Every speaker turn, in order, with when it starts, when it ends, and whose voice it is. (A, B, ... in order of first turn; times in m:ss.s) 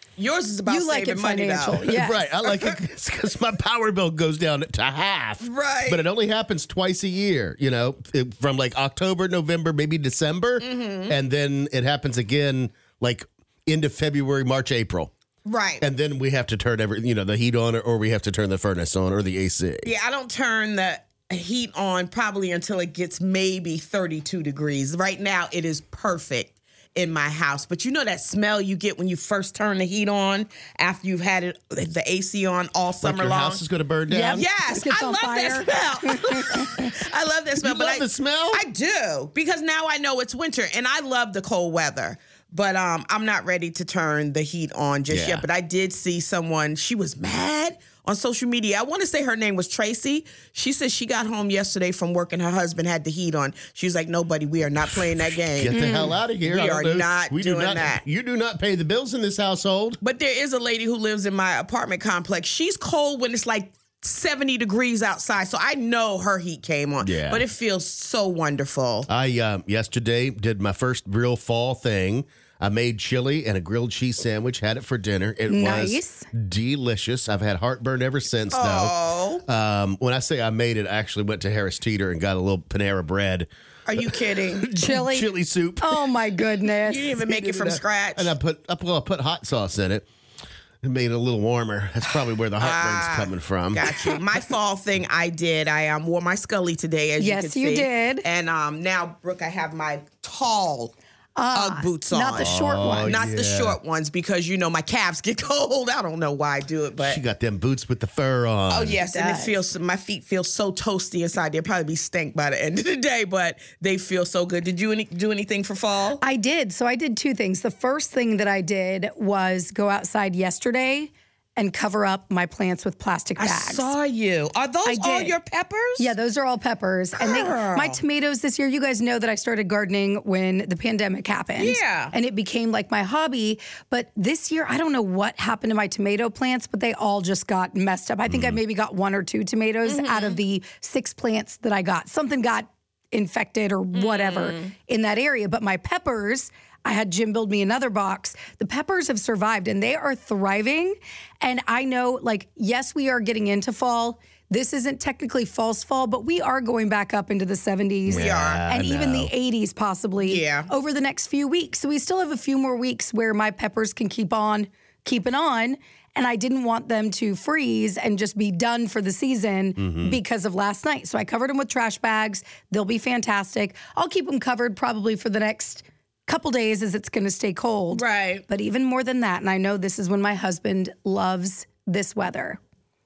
0:00.2-0:01.9 A
0:00.7-0:02.3 B
0:01.8-0:15.1 C
0:02.4-0:02.8 A
0:05.4-0:06.0 A
0:10.6-0:11.2 A
0:15.4-0:15.8 A
0:15.8-0:19.9 C
0:19.8-0:33.6 A
0:33.0-0:34.5 C
0:34.1-0:36.9 B
0:34.3-0:58.0 A
0:37.6-0:38.6 C
0:45.1-0:45.5 C
0:55.5-1:00.0 C
0:55.7-0:56.2 B
1:00.0-1:09.1 A
1:07.0-1:07.4 C
1:09.1-1:19.0 C
1:15.5-1:16.3 B
1:18.5-1:19.4 A
1:19.5-1:26.1 C
1:23.9-1:24.7 A
1:24.8-1:27.2 B
1:26.9-1:28.3 A
1:27.2-1:30.1 C
1:30.8-1:34.0 C
1:32.6-1:40.9 A
1:37.2-1:38.3 B
1:41.4-1:43.2 B
1:41.5-1:47.2 A
1:42.4-1:43.8 C
1:47.0-1:49.0 C
1:48.7-1:56.2 A
1:49.0-1:49.6 B
1:56.2-2:03.9 B
2:03.4-2:06.1 A
2:04.8-2:05.4 B
2:06.0-3:02.6 B
2:07.2-2:08.0 A
2:11.6-2:12.2 A
2:18.3-2:18.6 C
2:19.8-2:20.4 A
2:23.9-2:24.7 A
2:38.1-2:39.3 C
2:38.1-2:38.7 A
2:40.2-2:40.7 A
2:49.8-2:50.2 C
2:57.9-2:58.4 A